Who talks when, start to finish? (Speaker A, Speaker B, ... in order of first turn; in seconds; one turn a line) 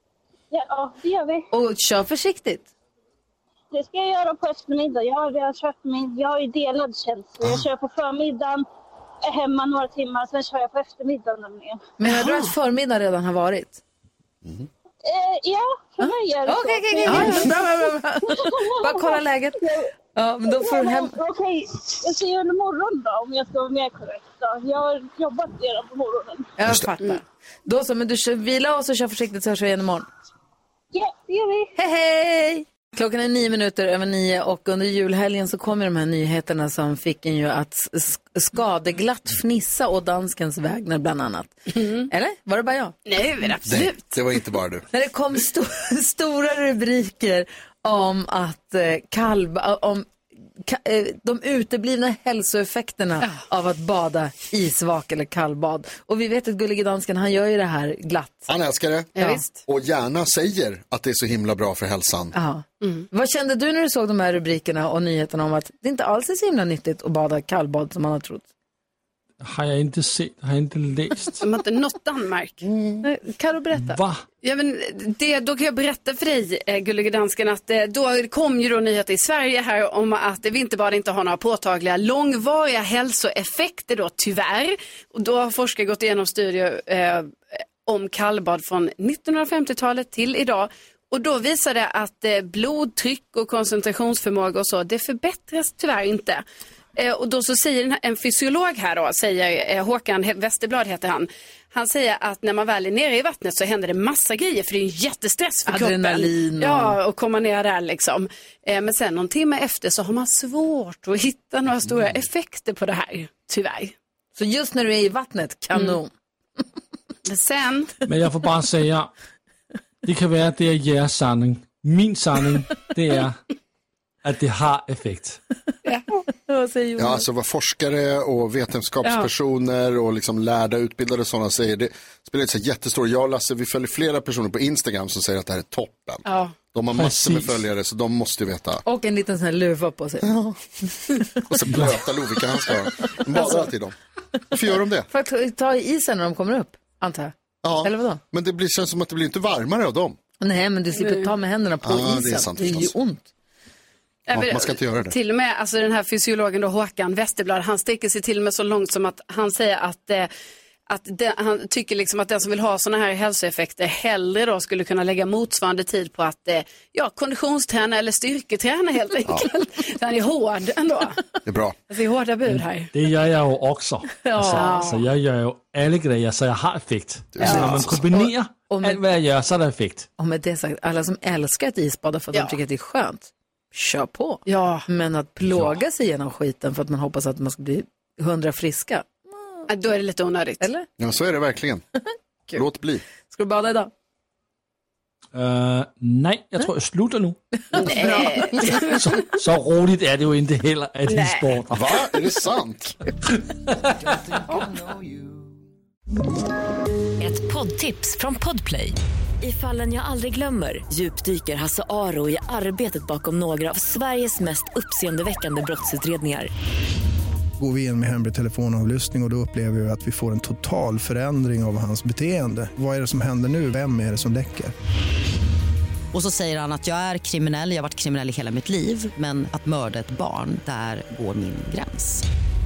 Speaker A: 0.5-1.5
Speaker B: 1.5-2.7
Speaker A: 3.7-8.7
Speaker A: 9.2-11.9
Speaker B: 12.0-13.8
Speaker A: 15.0-19.9
Speaker B: 16.5-19.6
Speaker C: 17.1-17.4
Speaker B: 20.1-21.1
Speaker A: 20.4-26.5
Speaker B: 26.6-30.1
Speaker A: 30.9-31.7
Speaker B: 31.8-43.0
Speaker C: 43.1-44.4
Speaker D: 43.7-44.8
Speaker B: 44.9-50.1
Speaker B: 50.6-58.5
Speaker D: 58.5-62.3
Speaker C: 59.2-59.6
Speaker B: 62.3-68.5
Speaker E: 69.4-71.4
Speaker C: 71.4-72.6
Speaker D: 72.6-73.0
Speaker B: 73.0-74.0
Speaker E: 73.8-74.2
Speaker C: 74.4-87.3
Speaker C: 87.9-96.4
Speaker C: 97.0-113.9
Speaker B: 105.7-107.0
Speaker B: 114.4-116.1
Speaker C: 115.7-116.0
Speaker C: 117.3-117.9
Speaker E: 118.1-119.1
Speaker E: 120.0-123.4
Speaker E: 124.2-125.4
Speaker B: 126.4-127.2
Speaker D: 127.0-138.8
Speaker C: 136.3-136.5
Speaker E: 137.0-137.6
Speaker B: 138.8-140.3
Speaker D: 140.2-140.6
Speaker D: 141.4-143.9
Speaker B: 143.1-143.6
Speaker D: 144.5-145.1
Speaker B: 145.1-148.2
Speaker D: 147.6-150.2
Speaker B: 150.4-153.3
Speaker C: 150.9-151.3
Speaker D: 151.8-152.9
Speaker C: 154.3-160.3
Speaker D: 154.3-155.1
Speaker C: 160.9-171.2
Speaker D: 171.4-171.8
Speaker C: 171.9-172.9
Speaker E: 172.5-180.1
Speaker B: 174.2-174.9
Speaker C: 174.5-175.0
Speaker D: 177.3-178.0
Speaker B: 177.4-179.0
Speaker B: 180.2-189.2
Speaker C: 184.5-184.9
Speaker C: 189.7-190.7
Speaker B: 190.6-190.9
Speaker D: 191.0-191.8
Speaker D: 192.5-193.0
Speaker B: 193.3-193.9
Speaker E: 195.3-201.9
Speaker C: 197.7-198.9
Speaker B: 198.0-198.4
Speaker C: 201.1-201.4
Speaker D: 201.7-202.9
Speaker F: 207.2-216.5
Speaker G: 217.6-224.7
Speaker H: 226.1-232.2